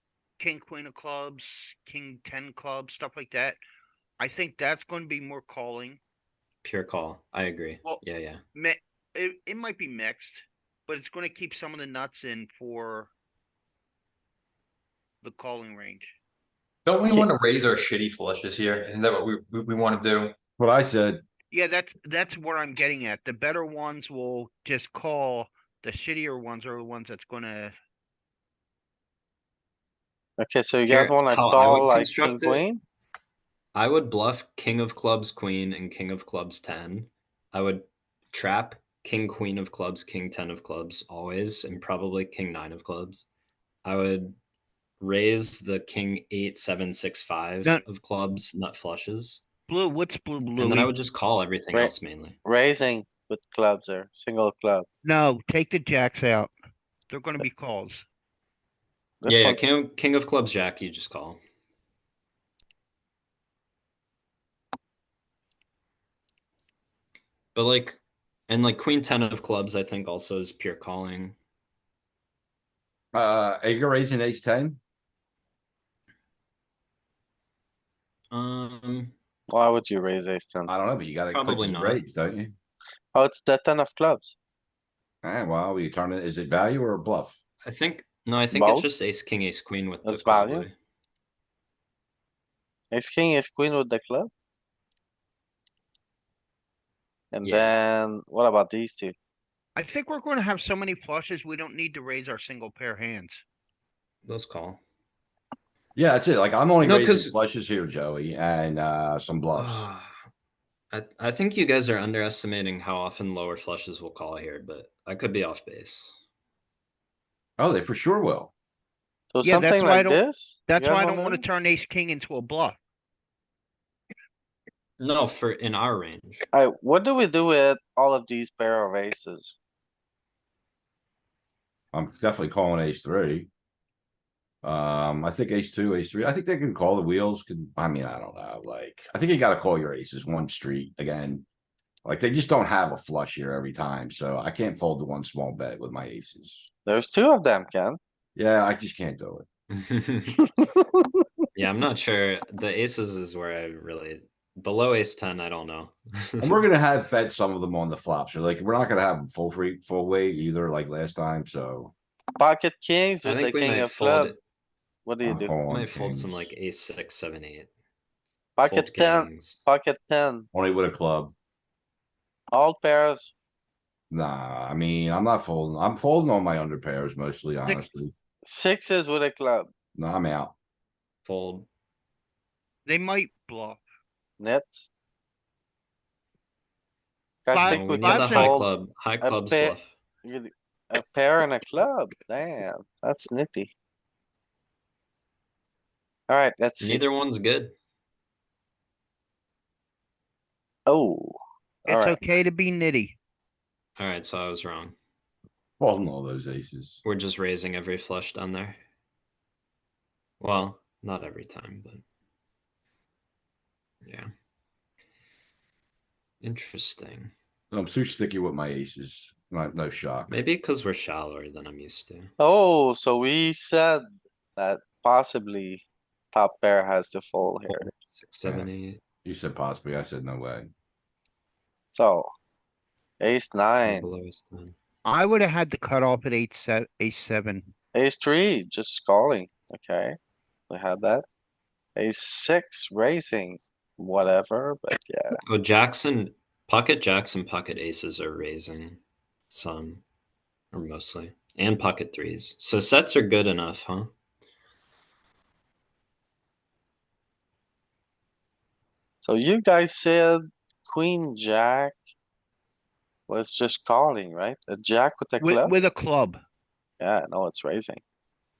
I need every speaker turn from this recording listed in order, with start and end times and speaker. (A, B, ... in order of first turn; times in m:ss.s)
0:00.4-0:03.6 A
0:04.2-0:06.0 A
0:06.6-0:08.4 B
0:08.5-0:13.1 A
0:15.2-0:16.1 A
0:16.8-0:20.4 C
0:20.6-0:21.2 D
0:21.5-0:27.8 A
0:30.4-0:32.8 E
0:30.8-0:32.6 B
0:33.7-0:43.2 B
0:43.8-0:44.4 B
0:45.0-0:49.4 B
0:49.7-0:50.9 A
0:50.6-0:52.4 B
0:51.7-0:54.8 E
0:55.0-0:56.5 A
0:57.1-0:58.0 A
0:59.2-0:59.6 E
0:59.2-1:01.4 B
1:07.5-1:11.4 B
1:13.1-1:14.8 D
1:18.3-1:19.1 B
1:19.5-1:20.7 E
1:20.7-1:22.5 D
1:21.3-1:22.0 B
1:23.1-1:24.3 E
1:25.2-1:27.4 D
1:27.6-1:30.7 B
1:28.5-1:28.9 E
1:30.0-1:30.7 E
1:32.9-1:34.3 E
1:37.3-1:39.1 E
1:37.4-1:37.8 B
1:39.8-1:43.4 A
1:44.2-1:44.8 B
1:46.0-1:49.9 D
1:46.8-1:47.3 B
1:49.5-1:50.2 B
1:50.9-1:56.1 B
1:57.6-1:58.5 D
1:59.3-2:01.4 E
1:59.4-2:02.8 A
2:05.0-2:06.4 B
2:06.5-2:09.6 E
2:11.9-2:13.5 D
2:14.6-2:21.5 D
2:22.0-2:26.7 D
2:26.8-2:28.0 E
2:28.4-2:29.5 D
2:29.7-2:30.4 B
2:30.6-2:31.2 E
2:31.5-2:36.6 B
2:36.4-2:41.9 D
2:42.4-2:44.3 E
2:43.2-2:44.4 B
2:45.0-2:45.6 E
2:45.2-2:46.4 D
2:45.7-2:47.7 B
2:48.6-2:50.5 E
2:48.6-2:49.6 B
2:50.5-2:51.3 D
2:52.5-2:53.3 E
2:54.1-2:58.1 D
2:58.4-2:59.7 E
2:59.9-3:00.5 D
3:01.2-3:01.7 B
3:02.8-3:03.8 A
3:04.4-3:04.9 E
3:07.4-3:08.7 E
3:07.5-3:08.6 A
3:07.6-3:09.9 B
3:09.2-3:13.7 E
3:16.3-3:17.0 E
3:16.8-3:17.7 B
3:20.9-3:22.2 E
3:21.9-3:23.2 A
3:24.0-3:24.9 B
3:25.8-3:27.0 D
3:27.0-3:28.8 B
3:30.4-3:32.0 B
3:34.0-3:34.3 B
3:36.4-3:37.3 B
3:37.7-3:40.3 D
3:40.3-3:42.3 B
3:42.4-3:44.0 E
3:44.6-3:47.9 E
3:47.7-3:49.0 B
3:49.2-3:50.7 D
3:51.9-3:52.3 E
3:53.2-3:54.1 E
3:53.8-3:54.7 B
3:55.0-3:57.7 A
3:57.9-4:00.2 E
4:00.7-4:01.2 E
4:02.0-4:05.4 E
4:05.4-4:10.0 B
4:10.7-4:14.1 B
4:19.2-4:22.0 E
4:23.3-4:25.7 E
4:25.4-4:26.4 A
4:27.0-4:28.0 E